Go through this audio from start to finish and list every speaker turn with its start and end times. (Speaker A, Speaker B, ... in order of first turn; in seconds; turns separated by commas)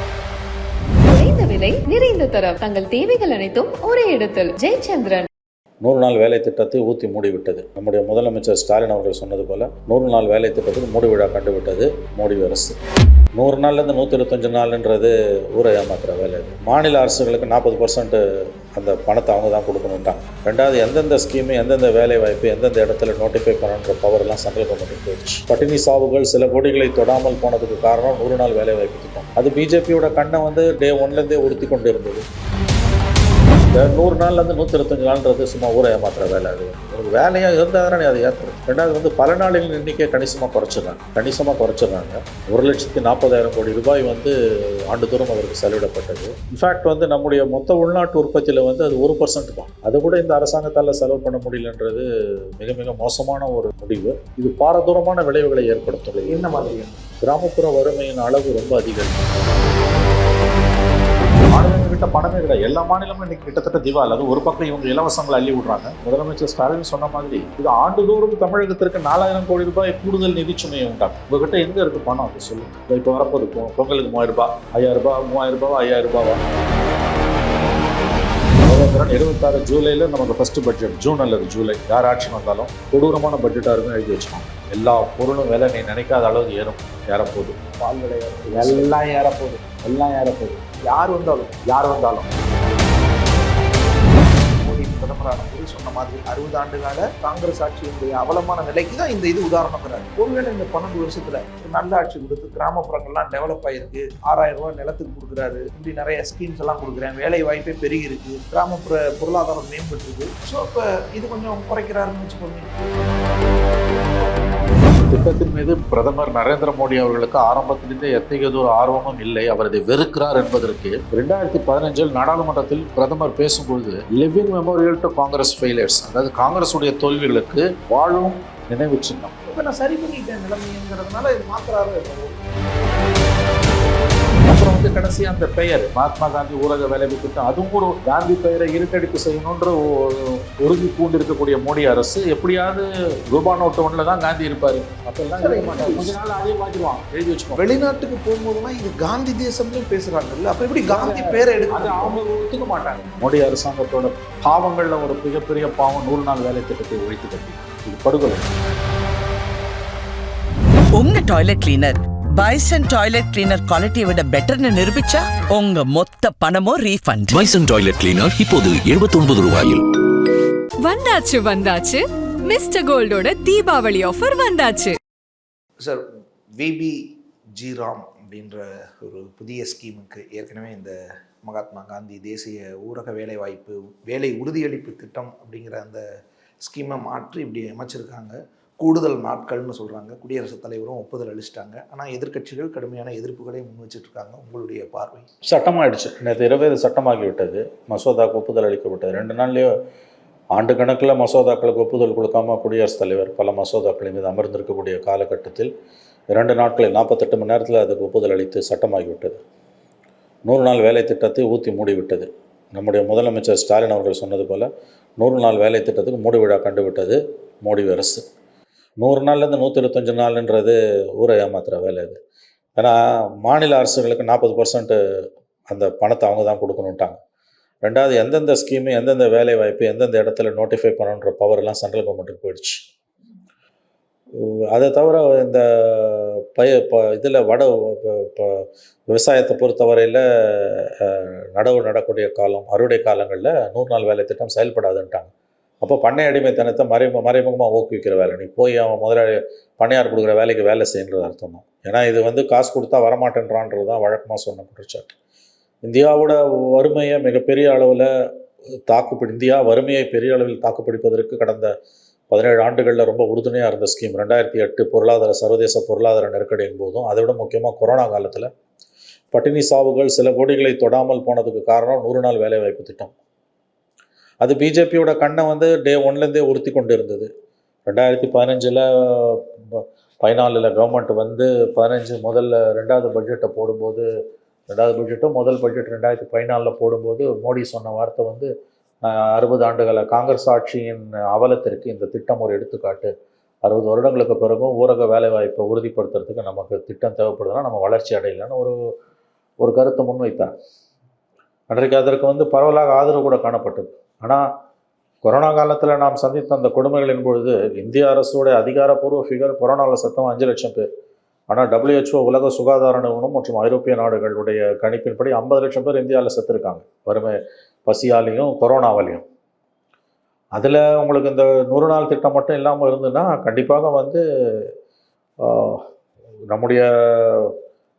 Speaker A: 1.0-5.3, Speaker B: 5.8-12.8, Speaker B: 13.3-18.2, Speaker B: 18.7-32.2, Speaker B: 33.7-44.3, Speaker B: 44.9-56.7, Speaker C: 56.2-57.0, Speaker B: 57.2-59.3, Speaker B: 61.5-76.5, Speaker B: 78.6-87.6, Speaker C: 87.8-89.0, Speaker B: 88.5-90.6, Speaker C: 90.8-91.6, Speaker B: 91.7-92.3, Speaker C: 94.5-112.8, Speaker B: 114.9-129.3, Speaker C: 129.5-132.4, Speaker B: 134.5-147.7, Speaker C: 145.4-146.2, Speaker C: 147.6-152.2, Speaker B: 150.9-158.5, Speaker D: 160.9-167.4, Speaker E: 167.3-169.8, Speaker F: 170.8-175.0, Speaker C: 175.8-186.0, Speaker C: 186.6-195.3, Speaker B: 195.4-199.8, Speaker B: 200.6-205.7, Speaker B: 206.3-209.4, Speaker B: 210.5-214.7, Speaker B: 215.2-218.2, Speaker B: 219.0-222.2, Speaker B: 222.8-225.0, Speaker B: 225.7-227.2, Speaker B: 227.8-232.9, Speaker B: 234.3-255.1, Speaker B: 255.8-258.1, Speaker B: 258.9-261.7, Speaker B: 262.3-268.5, Speaker B: 269.3-273.1, Speaker B: 274.4-277.3, Speaker B: 277.9-284.1, Speaker B: 284.7-288.5, Speaker B: 289.0-293.1, Speaker B: 293.6-298.8, Speaker B: 299.6-300.5, Speaker B: 301.7-304.4, Speaker B: 305.2-310.9, Speaker B: 311.5-319.2, Speaker B: 320.5-324.7, Speaker B: 325.4-325.9, Speaker B: 326.5-327.6